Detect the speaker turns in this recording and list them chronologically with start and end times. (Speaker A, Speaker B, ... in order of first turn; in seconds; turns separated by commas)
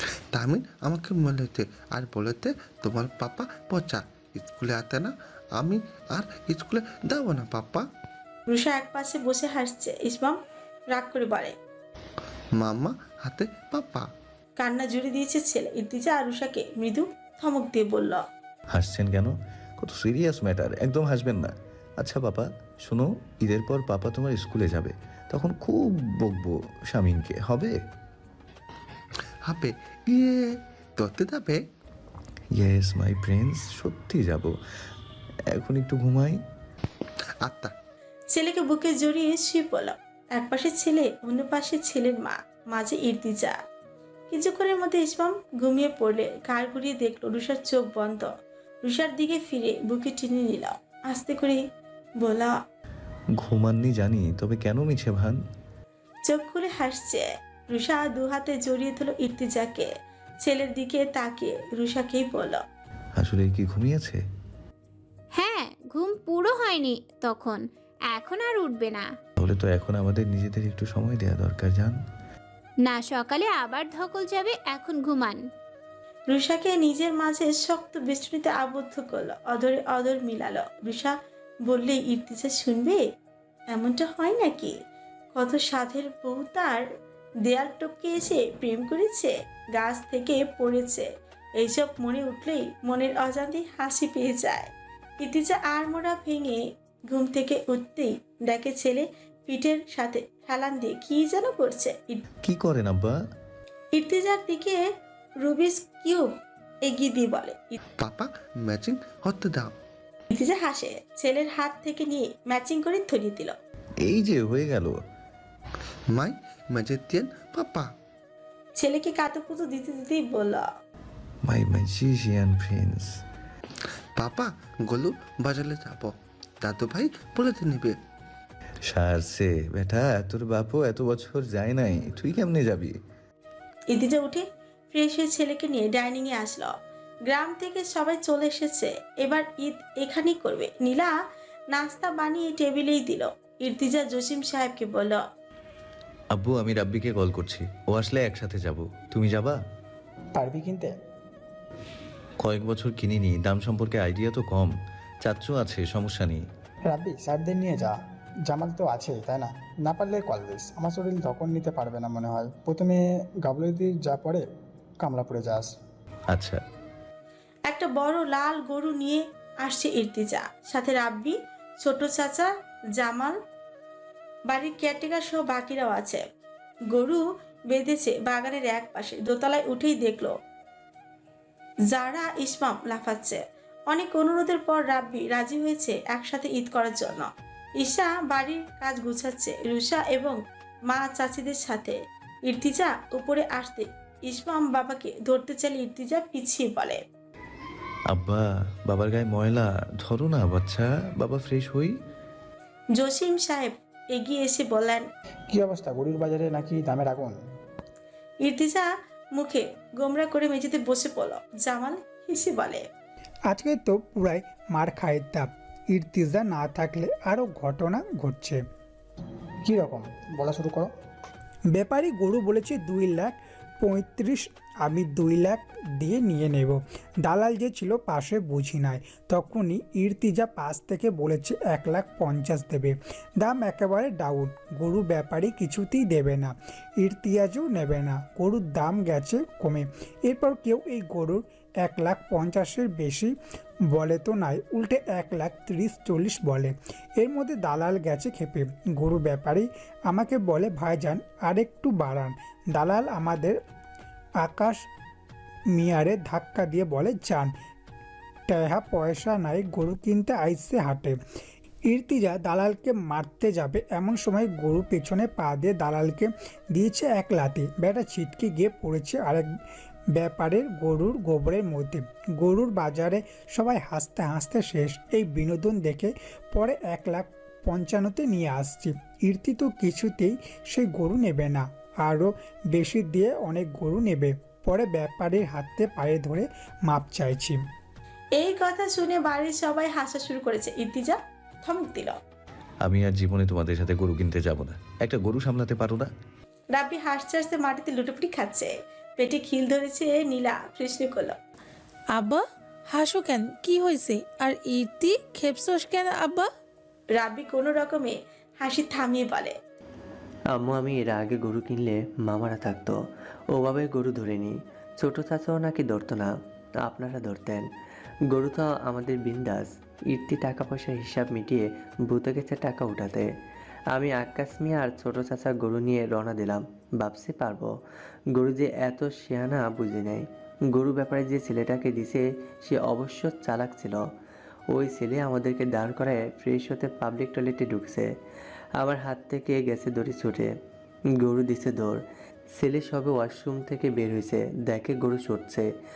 Speaker A: 0.3-7.9, Speaker B: 8.5-10.4, Speaker B: 10.9-11.6, Speaker A: 12.6-14.1, Speaker B: 14.6-18.2, Speaker C: 18.7-27.8, Speaker A: 29.4-31.6, Speaker C: 32.5-34.6, Speaker C: 35.5-36.4, Speaker A: 37.4-37.7, Speaker B: 38.3-43.6, Speaker B: 44.3-48.3, Speaker B: 48.9-51.6, Speaker B: 52.2-52.5, Speaker C: 53.4-55.4, Speaker B: 56.3-59.9, Speaker B: 60.4-62.6, Speaker C: 63.2-64.2, Speaker D: 65.4-69.1, Speaker C: 69.4-72.0, Speaker D: 72.8-75.4, Speaker B: 76.3-83.0, Speaker B: 83.7-84.8, Speaker B: 85.3-86.9, Speaker B: 87.5-102.2, Speaker C: 102.4-103.2, Speaker B: 104.0-107.8, Speaker A: 107.9-109.7, Speaker B: 110.3-113.6, Speaker C: 114.0-115.0, Speaker A: 116.1-117.9, Speaker B: 118.8-120.7, Speaker C: 121.5-123.2, Speaker A: 124.2-128.0, Speaker C: 128.9-133.0, Speaker B: 133.9-136.7, Speaker B: 137.3-141.1, Speaker B: 141.7-145.2, Speaker C: 146.3-149.6, Speaker E: 150.4-150.9, Speaker C: 152.4-156.4, Speaker E: 156.9-164.4, Speaker E: 165.0-165.7, Speaker C: 166.3-166.6, Speaker B: 167.7-173.4, Speaker B: 174.5-176.2, Speaker B: 176.9-180.3, Speaker B: 181.9-187.3, Speaker B: 187.8-190.4, Speaker B: 190.9-197.0, Speaker C: 198.1-202.0, Speaker B: 203.0-205.1, Speaker E: 205.5-207.4, Speaker B: 208.4-212.9, Speaker F: 213.5-218.6, Speaker E: 219.7-220.9, Speaker F: 221.7-243.3, Speaker F: 243.9-253.6, Speaker F: 254.4-254.9, Speaker F: 255.7-257.5, Speaker F: 258.5-261.2, Speaker F: 261.9-269.5, Speaker F: 270.1-287.6, Speaker B: 288.4-292.2, Speaker C: 292.9-296.1, Speaker B: 296.7-301.4, Speaker G: 302.1-306.5, Speaker B: 307.2-309.6, Speaker H: 310.6-313.0, Speaker H: 313.5-316.3, Speaker H: 316.9-317.7, Speaker H: 318.3-323.3, Speaker H: 323.9-327.8, Speaker H: 328.3-334.1, Speaker H: 334.7-338.1, Speaker H: 338.8-340.5, Speaker H: 341.2-342.0, Speaker H: 342.6-345.7